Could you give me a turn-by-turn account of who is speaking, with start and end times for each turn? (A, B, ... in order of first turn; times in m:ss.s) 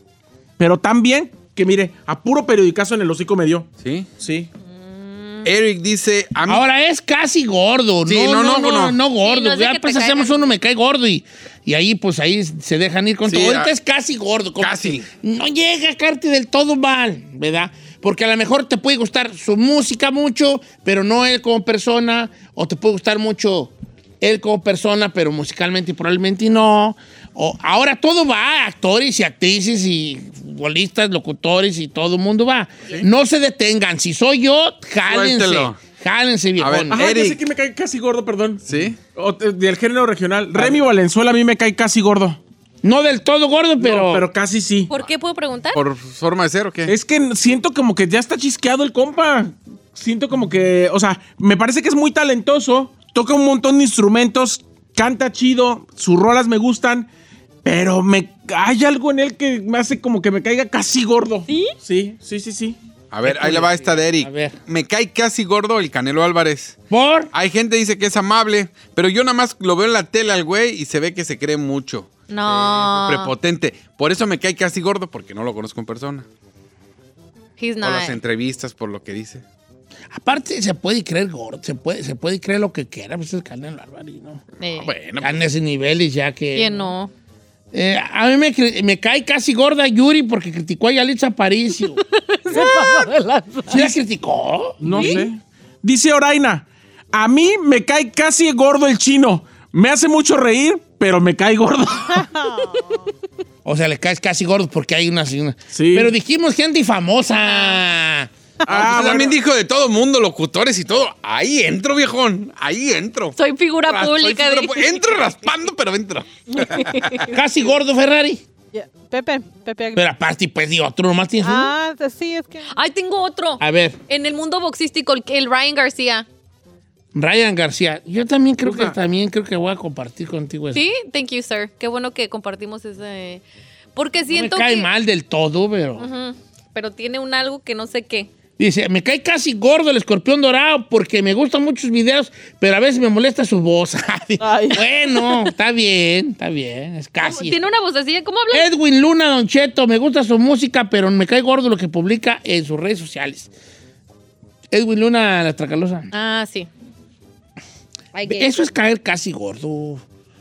0:00.6-0:03.7 A
0:03.8-0:04.1 B
0:04.2-0:04.5 A
0:04.7-0:05.5 C
0:05.4-0:06.6 B
0:06.5-0:37.0 D
0:08.1-0:09.0 B
0:09.2-0:10.5 C
0:13.2-0:13.7 B
0:14.6-0:15.1 B
0:35.1-0:35.8 B
0:36.6-0:37.4 B
0:36.9-0:38.6 A
0:38.7-0:39.0 B
0:39.2-0:42.4 A
0:42.8-0:44.3 D
0:43.8-0:44.9 A
0:44.9-0:45.8 C
0:45.7-0:46.9 B
0:46.9-0:57.1 A
0:57.6-1:02.8 A
1:01.5-1:01.8 C
1:03.1-1:06.8 B
1:03.2-1:04.6 D
1:06.9-1:07.3 D
1:07.3-1:16.3 B
1:12.3-1:13.3 C
1:17.6-1:18.2 C
1:17.8-1:19.4 B
1:20.1-1:24.4 D
1:24.6-1:24.9 C
1:24.7-1:25.4 B
1:25.2-1:26.9 D
1:26.5-1:27.1 C
1:27.7-1:32.0 D
1:32.0-1:33.8 C
1:33.7-1:35.2 D
1:34.8-1:42.3 A
1:34.9-1:35.3 C
1:42.1-1:43.0 E
1:43.6-1:48.3 D
1:45.7-1:46.1 A
1:47.4-1:47.8 C
1:48.7-1:57.3 B
1:48.7-1:49.4 A
1:53.4-1:55.1 C
1:56.5-1:57.3 C
1:57.3-1:58.4 D
1:58.7-2:00.0 E
2:00.0-2:01.7 D
2:01.4-2:02.7 E
2:02.7-2:06.3 C
2:03.6-2:04.0 D
2:07.1-2:10.8 D
2:08.6-2:09.0 A
2:10.7-2:13.4 C
2:14.0-2:14.9 C
2:14.3-2:16.1 D
2:16.0-2:18.3 C
2:18.6-2:27.6 D
2:24.4-2:24.8 E
2:27.2-2:28.7 C
2:28.5-2:33.5 D
2:34.7-2:36.1 D
2:36.1-2:36.7 C
2:38.1-2:38.6 C
2:38.3-2:40.0 D